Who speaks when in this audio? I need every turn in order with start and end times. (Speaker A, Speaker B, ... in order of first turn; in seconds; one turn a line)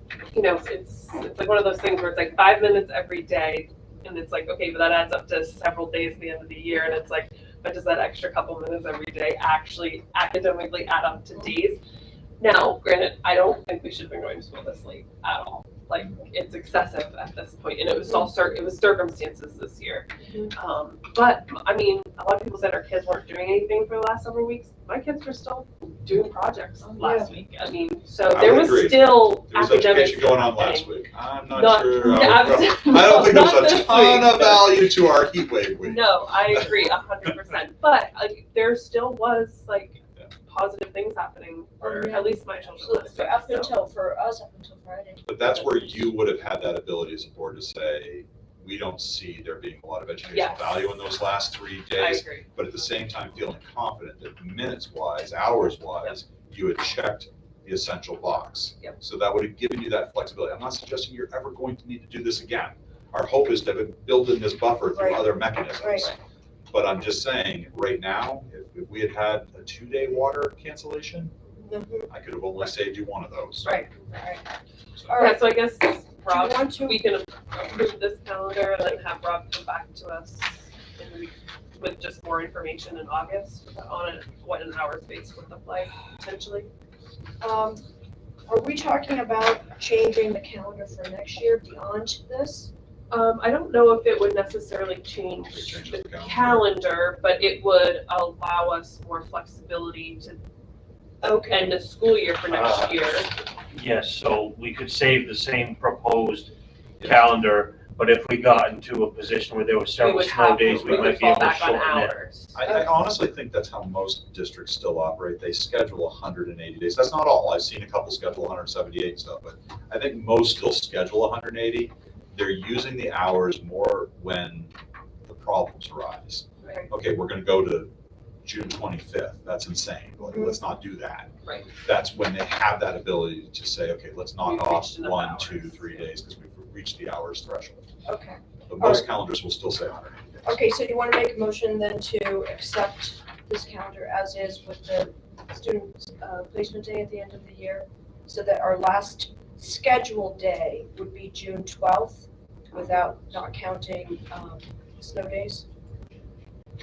Speaker A: 0.3-11.8
Speaker A: 12.4-30.9
Speaker B: 20.2-20.5
Speaker B: 27.0-27.4
Speaker C: 28.3-36.8
Speaker A: 31.5-34.9
Speaker A: 35.8-43.8
Speaker B: 41.8-46.1
Speaker C: 45.3-66.2
Speaker A: 50.3-50.9
Speaker A: 52.0-52.5
Speaker B: 64.9-66.1
Speaker C: 66.7-71.3
Speaker B: 71.6-72.1
Speaker C: 72.1-73.8
Speaker B: 73.7-74.5
Speaker B: 75.1-75.5
Speaker A: 75.1-86.7
Speaker B: 76.3-77.0
Speaker B: 87.4-87.8
Speaker B: 88.5-92.7
Speaker A: 93.1-100.4
Speaker C: 95.5-96.7
Speaker B: 101.2-101.8
Speaker A: 101.5-103.3
Speaker D: 102.5-112.2
Speaker C: 107.0-107.3
Speaker A: 110.0-112.6
Speaker C: 110.6-111.2
Speaker C: 112.5-124.7
Speaker C: 125.2-127.9
Speaker C: 128.4-131.3
Speaker B: 130.2-130.6
Speaker C: 131.8-137.8
Speaker A: 134.4-136.1
Speaker B: 138.1-139.1
Speaker C: 138.7-140.5
Speaker B: 140.4-155.7